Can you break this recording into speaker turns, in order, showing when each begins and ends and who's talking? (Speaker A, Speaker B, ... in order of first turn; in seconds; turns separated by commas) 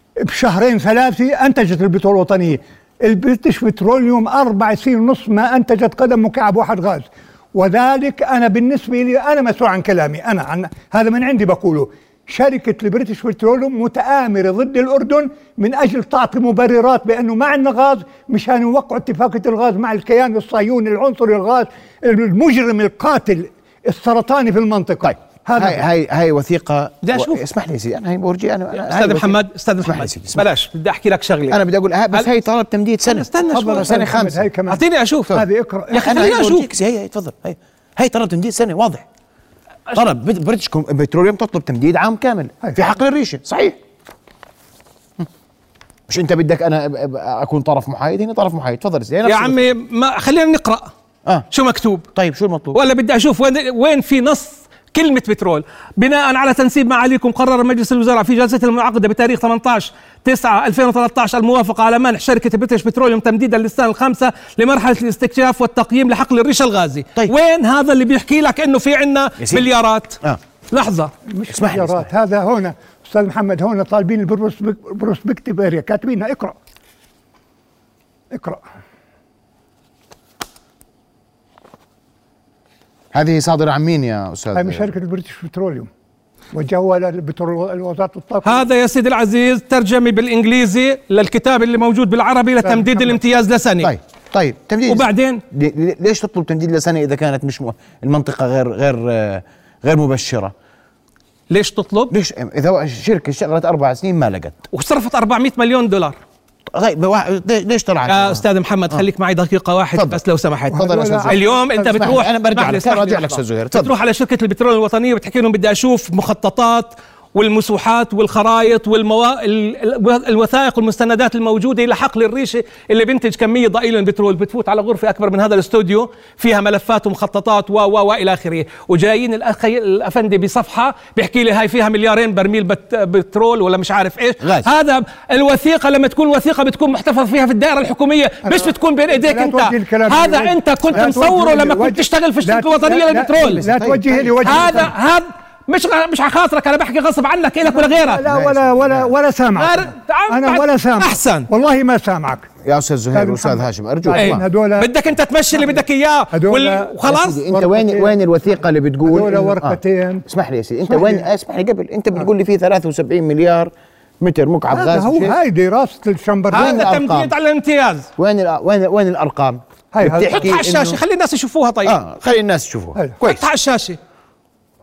Speaker A: 0.2-25.8, Speaker B: 25.0-30.4, Speaker C: 27.0-27.4, Speaker C: 28.7-31.6, Speaker B: 31.5-34.4, Speaker C: 33.0-34.0, Speaker A: 33.5-36.3, Speaker C: 34.7-35.4, Speaker B: 35.3-39.0, Speaker C: 35.9-36.7, Speaker B: 39.9-43.8, Speaker B: 46.1-49.6, Speaker C: 49.2-50.9, Speaker C: 51.5-52.0, Speaker B: 52.1-52.8, Speaker C: 52.7-70.2, Speaker B: 69.4-69.7, Speaker C: 70.7-71.1, Speaker A: 71.3-76.6, Speaker B: 71.5-72.1, Speaker A: 78.3-78.6, Speaker B: 83.1-84.9, Speaker A: 84.5-85.9, Speaker A: 86.5-88.6, Speaker C: 88.4-93.9, Speaker A: 92.6-93.2, Speaker B: 93.8-100.5, Speaker C: 94.9-95.4, Speaker C: 101.5-102.1, Speaker B: 102.1-104.6, Speaker C: 104.7-106.2, Speaker B: 106.7-109.0, Speaker C: 108.1-143.6, Speaker B: 109.9-110.2, Speaker A: 110.7-112.2, Speaker B: 110.7-113.9, Speaker B: 134.4-134.7, Speaker A: 138.4-144.9, Speaker B: 143.4-144.9, Speaker C: 144.4-148.2, Speaker A: 147.7-152.5, Speaker B: 148.2-149.1, Speaker C: 149.6-151.5, Speaker B: 152.6-154.4, Speaker A: 153.1-154.9, Speaker C: 154.2-157.4, Speaker A: 156.3-156.9, Speaker B: 157.0-165.3, Speaker A: 157.5-158.1, Speaker A: 159.0-160.2, Speaker A: 160.8-161.3, Speaker A: 164.7-166.9, Speaker B: 166.5-167.3, Speaker C: 166.5-168.1, Speaker B: 168.2-171.0, Speaker A: 169.9-170.5, Speaker C: 170.3-171.9, Speaker B: 171.8-173.4, Speaker C: 173.2-174.0